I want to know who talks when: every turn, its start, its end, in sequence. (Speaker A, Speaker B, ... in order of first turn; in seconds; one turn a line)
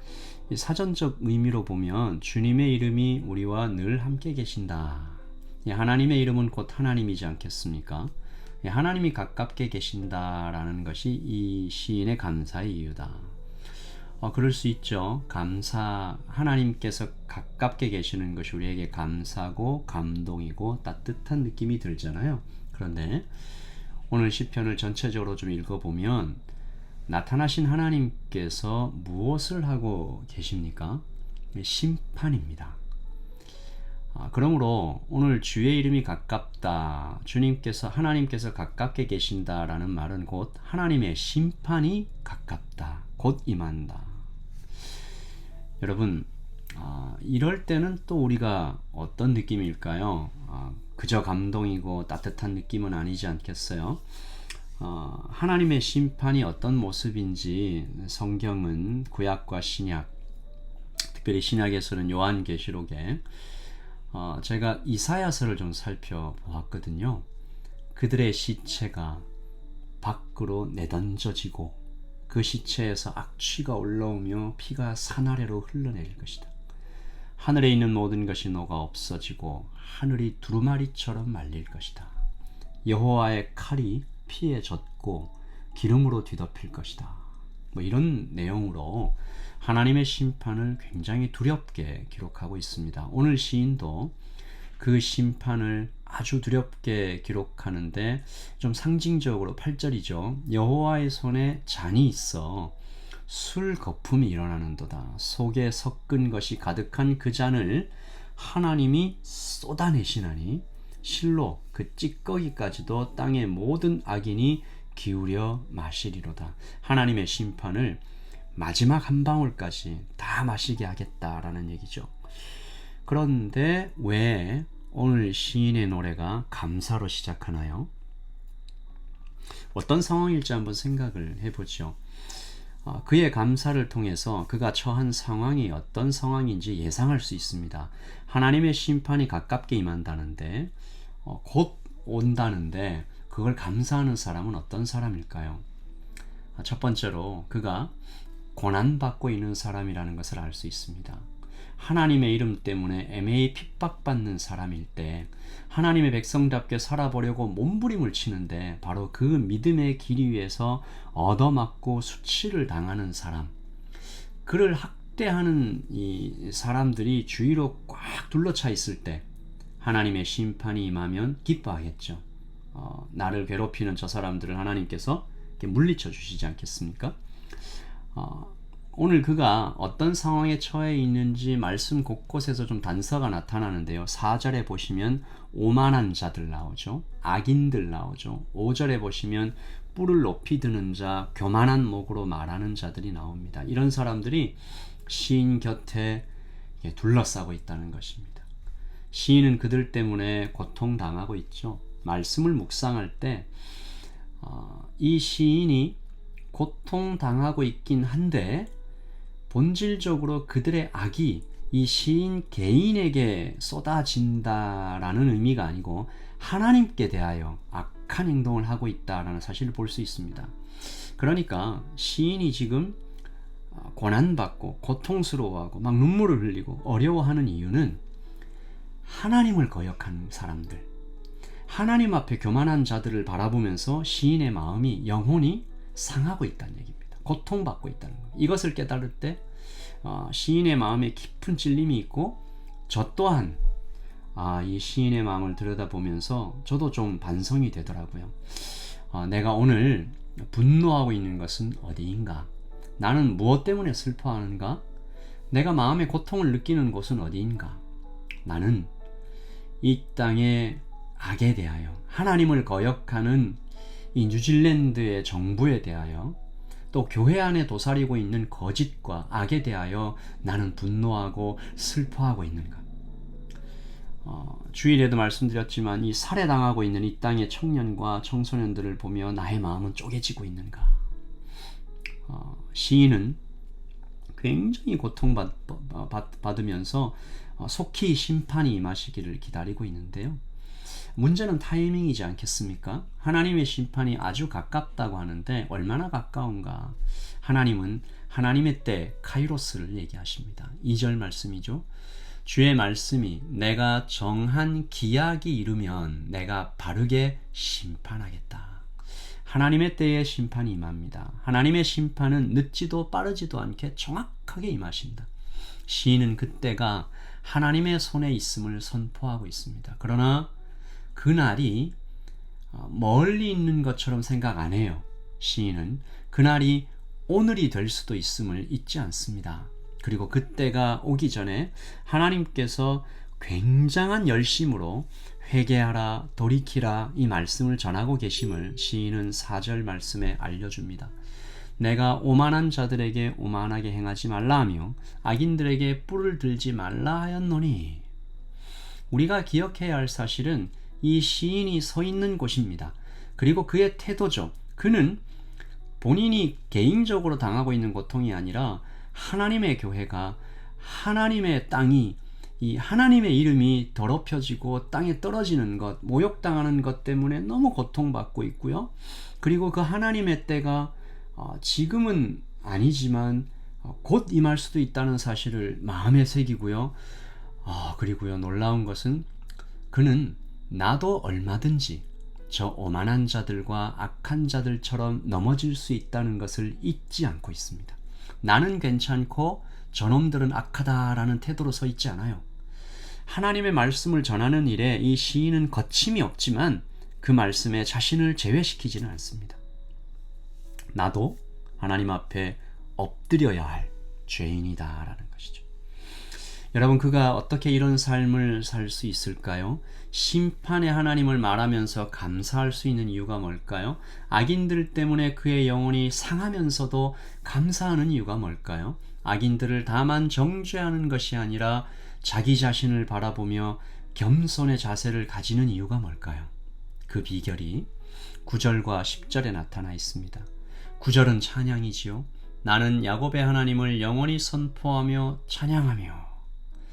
Speaker A: 0.5-13.3
Speaker A: 14.2-23.3
Speaker A: 24.1-26.4
Speaker A: 27.1-32.8
Speaker A: 34.1-44.2
Speaker A: 45.8-54.0
Speaker A: 54.8-60.1
Speaker A: 61.1-63.2
Speaker A: 64.1-67.2
Speaker A: 67.9-69.3
Speaker A: 70.0-76.5
Speaker A: 77.4-82.1
Speaker A: 82.8-94.2
Speaker A: 94.8-102.8
Speaker A: 103.3-118.0
Speaker A: 118.5-122.2
Speaker A: 123.0-127.9
Speaker A: 129.7-140.7
Speaker A: 141.2-145.6
Speaker A: 146.6-147.9
Speaker A: 148.5-163.5
Speaker A: 164.4-169.2
Speaker A: 169.8-177.2
Speaker A: 178.1-196.3
Speaker A: 196.8-198.5
Speaker A: 199.1-203.5
Speaker A: 204.4-206.0
Speaker A: 206.5-208.7
Speaker A: 209.5-223.0
Speaker A: 223.7-228.0
Speaker A: 229.0-230.9
Speaker A: 231.7-239.4
Speaker A: 240.0-243.6
Speaker A: 244.3-254.8
Speaker A: 255.5-257.8
Speaker A: 258.4-258.9
Speaker A: 259.8-263.6
Speaker A: 264.1-266.4
Speaker A: 266.9-272.9
Speaker A: 274.2-281.0
Speaker A: 282.2-283.4
Speaker A: 284.3-290.4
Speaker A: 291.1-301.9
Speaker A: 302.4-308.9
Speaker A: 309.4-315.3
Speaker A: 315.9-320.5
Speaker A: 321.1-321.9
Speaker A: 322.7-341.1
Speaker A: 341.8-348.1
Speaker A: 349.1-355.2
Speaker A: 356.0-377.0
Speaker A: 377.6-379.3
Speaker A: 379.9-392.4
Speaker A: 393.2-399.6
Speaker A: 400.9-405.7
Speaker A: 406.7-426.5
Speaker A: 427.1-427.9
Speaker A: 428.4-436.4